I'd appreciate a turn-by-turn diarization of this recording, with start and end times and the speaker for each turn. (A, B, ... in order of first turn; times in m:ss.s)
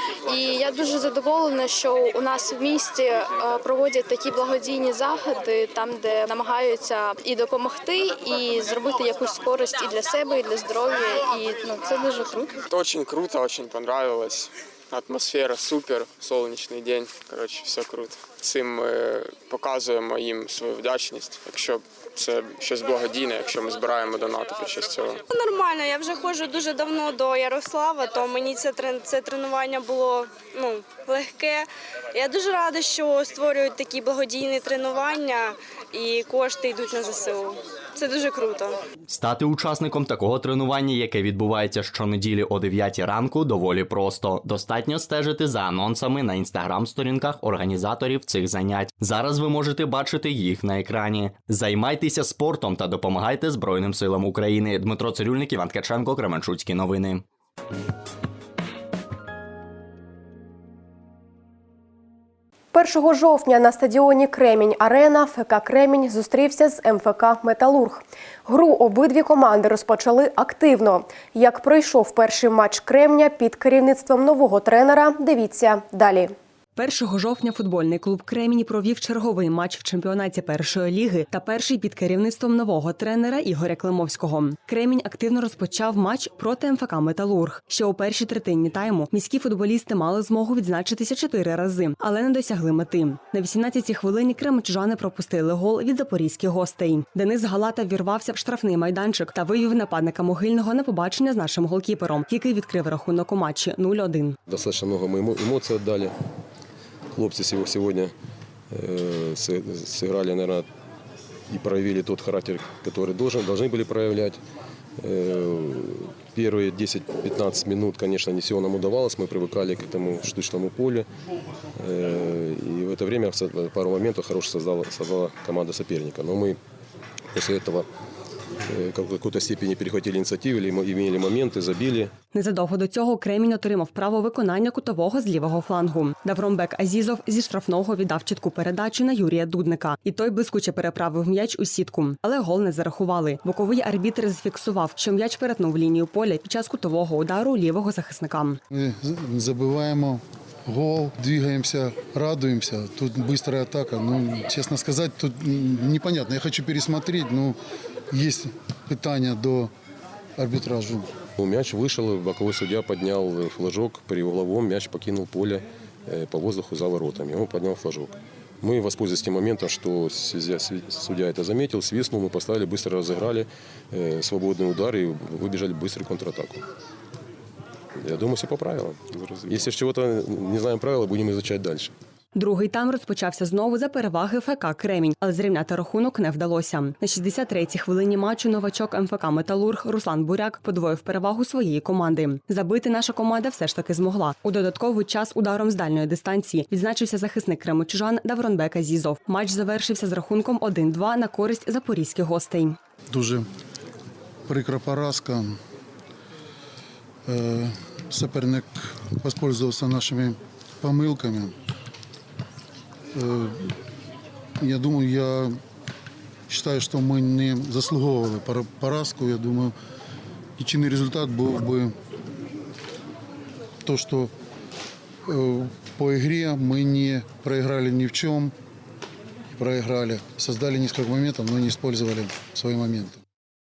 0:00.2-0:12.6 A
0:12.7-0:25.2 B
0:25.3-0:38.8 C
0:39.1-0:57.2 D
1:02.7-1:16.3 E
1:16.8-1:44.4 F
1:44.5-1:46.1 G
1:47.1-1:48.1 G
1:48.7-1:50.6 G
1:51.5-1:54.4 G
1:55.0-2:01.1 G
2:01.8-2:06.6 G
2:07.3-2:07.9 G
2:08.6-2:12.2 G
2:12.3-2:28.6 F
2:28.7-2:37.6 H
2:38.1-2:39.7 H
2:40.4-2:41.1 H
2:41.4-2:56.6 G
2:58.0-3:01.9 G
3:02.3-3:22.8 F
3:23.1-3:23.5 H
3:24.5-3:25.6 H
3:27.3-3:31.5 H
3:33.1-3:33.7 H
3:34.6-3:35.6 H
3:36.5-3:39.7 H
3:40.6-3:41.9 H
3:43.8-3:44.3 H
3:45.3-3:48.5 H
3:49.5-3:53.2 H